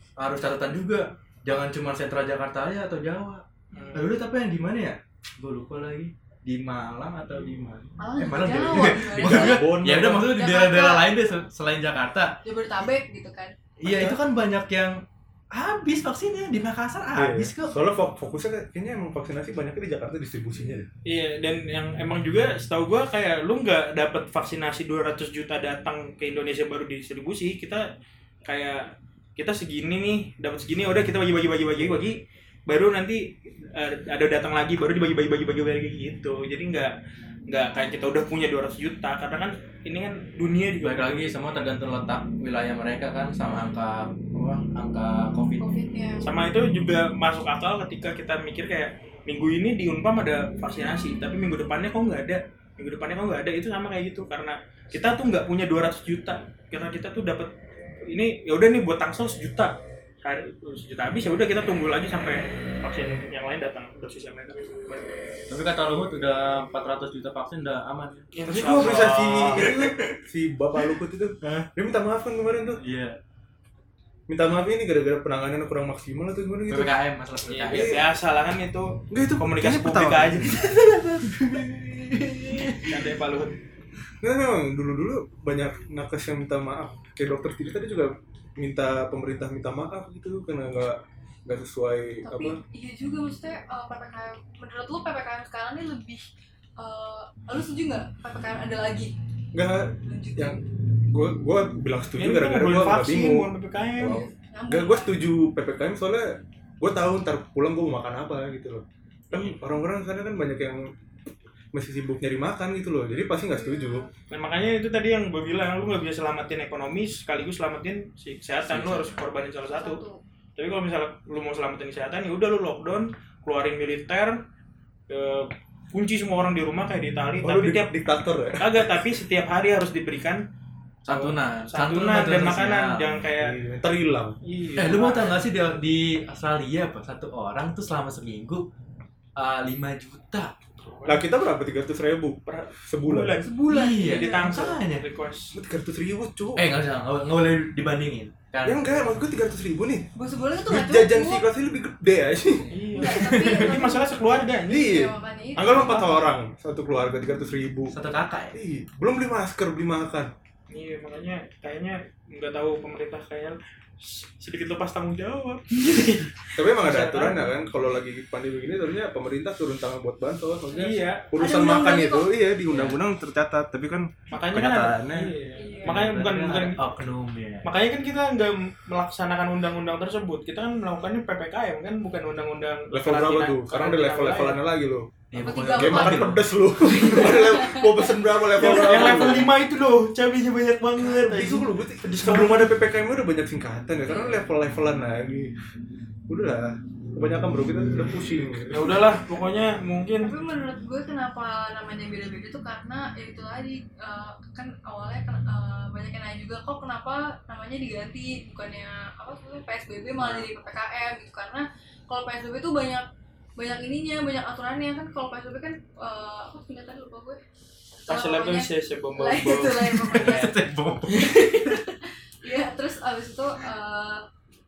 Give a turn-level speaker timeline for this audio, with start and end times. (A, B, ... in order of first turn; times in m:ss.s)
0:00.2-0:03.4 A
0:03.7-0:04.2 B
0:03.9-0:12.4 A
0:08.0-0:11.1 C
0:09.2-0:10.4 D
0:12.4-0:13.5 C
0:13.8-0:17.8 A
0:13.8-0:14.2 D
0:17.1-0:20.9 D
0:21.0-0:27.8 B
0:28.4-0:36.9 B
0:31.8-0:32.0 A
0:37.5-0:41.3 B
0:40.8-0:45.7 A
0:45.6-0:46.2 C
0:46.2-0:57.5 B
0:58.0-1:05.1 B
1:05.5-1:08.3 A
1:08.3-1:09.8 B
1:08.5-1:12.8 D
1:09.6-1:10.2 A
1:11.4-1:11.7 A
1:12.8-1:13.2 A
1:14.3-1:17.0 D
1:16.7-1:18.1 A
1:17.4-1:20.5 B
1:17.7-1:18.0 D
1:19.1-1:20.7 D
1:20.5-1:23.0 A
1:22.8-1:23.6 B
1:24.2-1:32.6 D
1:32.2-1:36.3 C
1:36.8-1:39.1 C
1:39.5-1:50.9 D
1:40.0-1:40.6 C
1:42.2-1:44.2 B
1:44.0-1:45.2 C
1:49.3-1:49.6 B
1:51.7-1:54.0 D
1:53.3-1:54.1 C
1:54.3-2:00.0 B
1:58.6-1:59.2 A
1:59.7-2:00.2 C
2:00.6-2:04.4 B
2:05.1-2:07.9 B
2:07.4-2:09.0 D
2:08.5-2:10.4 B
2:11.0-2:13.2 A
2:11.1-2:13.6 B
2:13.3-2:14.4 D
2:14.4-2:15.4 B
2:14.8-2:18.6 A
2:19.4-2:20.5 A
2:20.8-2:21.3 B
2:21.0-2:23.4 D
2:22.4-2:25.6 B
2:23.4-2:24.6 C
2:23.7-2:25.0 A
2:25.5-2:26.6 D
2:26.5-2:29.0 A
2:28.6-2:30.1 D
2:30.1-2:31.5 C
2:30.6-2:33.5 D
2:32.7-2:34.9 B
2:33.0-2:36.2 C
2:33.4-2:33.7 A
2:34.7-2:37.9 D
2:37.9-2:38.6 A
2:38.5-2:40.3 D
2:40.7-2:47.5 B
2:46.5-2:55.4 D
2:50.7-2:51.3 B
2:51.4-2:52.3 C
2:52.7-2:53.0 A
2:54.3-2:56.8 B
2:55.5-2:56.0 C
2:55.8-2:57.6 A
2:57.6-3:04.6 B
3:02.9-3:05.2 D
3:05.3-3:06.4 A
3:05.3-3:08.1 C
3:05.7-3:09.5 D
3:08.5-3:12.7 B
3:08.8-3:09.4 A
3:11.0-3:15.5 D
3:14.1-3:14.4 C
3:16.3-3:19.1 D
3:18.7-3:20.3 B
3:20.2-3:33.0 C
3:33.6-3:37.4 C
3:38.0-3:40.5 C
3:38.1-3:40.5 B
3:40.1-3:41.6 A
3:41.1-3:44.2 C